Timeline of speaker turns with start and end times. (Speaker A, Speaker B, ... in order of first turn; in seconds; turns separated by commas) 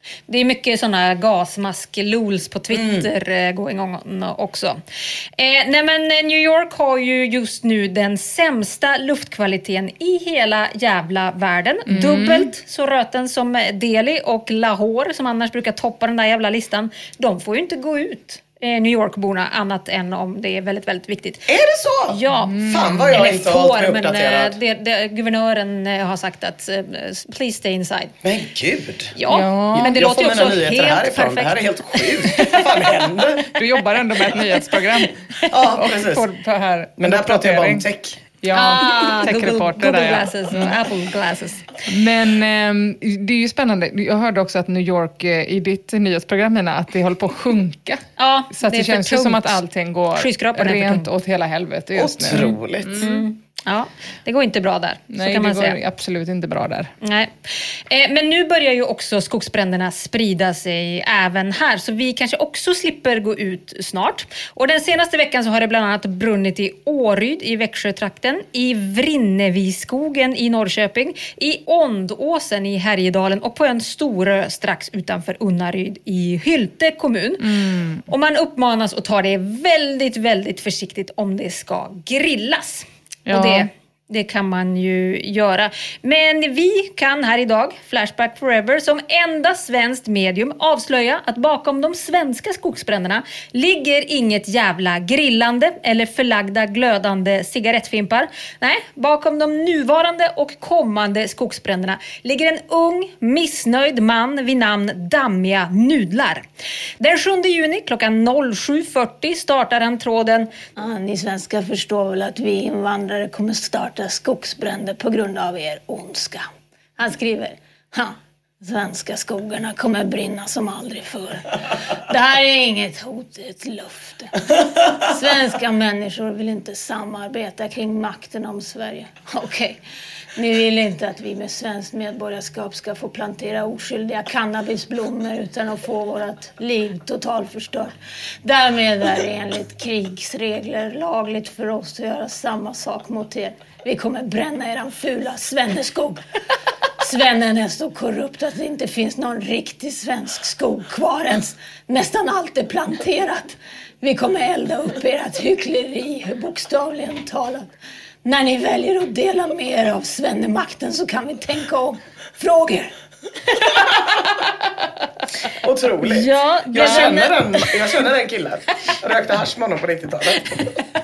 Speaker A: 0.3-4.8, Speaker B: 2.7-3.1, Speaker A: 5.4-21.5, Speaker C: 11.9-12.5, Speaker B: 21.5-24.6, Speaker A: 22.1-28.2, Speaker C: 22.5-23.2, Speaker B: 28.2-29.1, Speaker A: 29.1-32.6, Speaker C: 29.3-30.0, Speaker B: 29.7-33.6, Speaker C: 33.6-37.9, Speaker B: 35.5-36.3, Speaker B: 37.0-38.2, Speaker C: 38.4-40.8, Speaker A: 38.5-41.7, Speaker C: 41.9-53.3, Speaker A: 48.2-49.6, Speaker A: 50.1-51.1, Speaker B: 52.0-53.1, Speaker A: 52.3-55.8, Speaker C: 55.1-56.9, Speaker A: 57.0-106.5, Speaker C: 77.4-78.0, Speaker C: 83.3-83.7, Speaker A: 107.0-110.5, Speaker D: 110.8-129.8, Speaker D: 130.3-146.2, Speaker D: 147.0-157.7, Speaker D: 158.2-162.9, Speaker B: 165.6-170.7, Speaker A: 166.0-167.6, Speaker C: 166.8-167.1